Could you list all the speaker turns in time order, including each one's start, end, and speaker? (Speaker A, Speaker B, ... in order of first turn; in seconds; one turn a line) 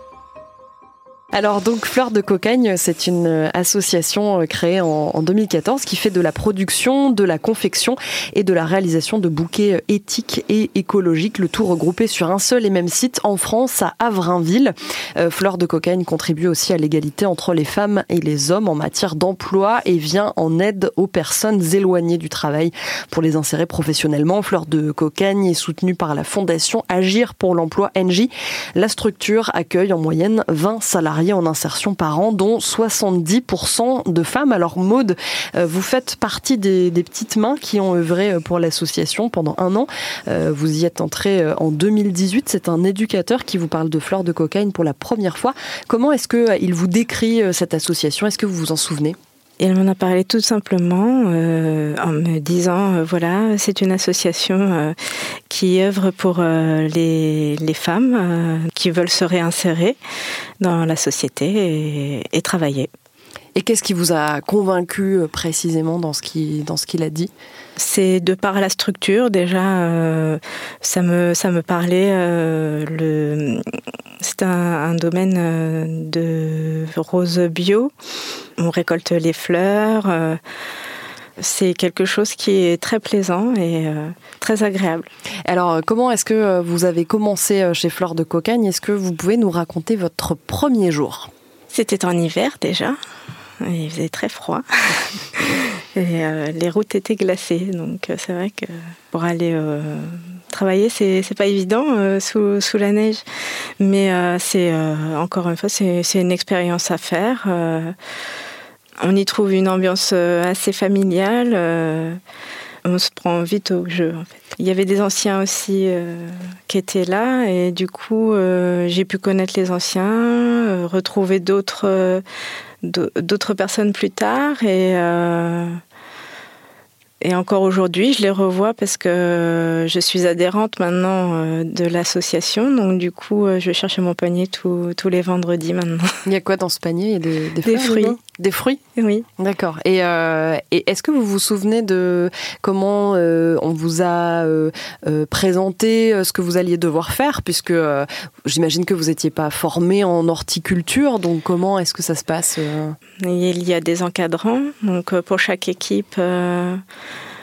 Speaker A: 1.3-49.2
Speaker B: 49.6-60.0
Speaker B: 60.6-62.9
Speaker A: 63.6-67.3
Speaker B: 67.8-73.7
Speaker B: 74.2-77.9
Speaker B: 78.6-80.4
Speaker B: 81.4-85.1
Speaker A: 85.5-91.3
Speaker B: 91.7-93.0
Speaker B: 93.6-108.0
Speaker B: 109.0-112.2
Speaker B: 112.8-122.2
Speaker B: 122.8-125.8
Speaker B: 127.2-136.2
Speaker A: 136.2-138.8
Speaker B: 137.6-138.2
Speaker B: 139.0-139.2
Speaker A: 139.4-153.0
Speaker B: 153.2-156.8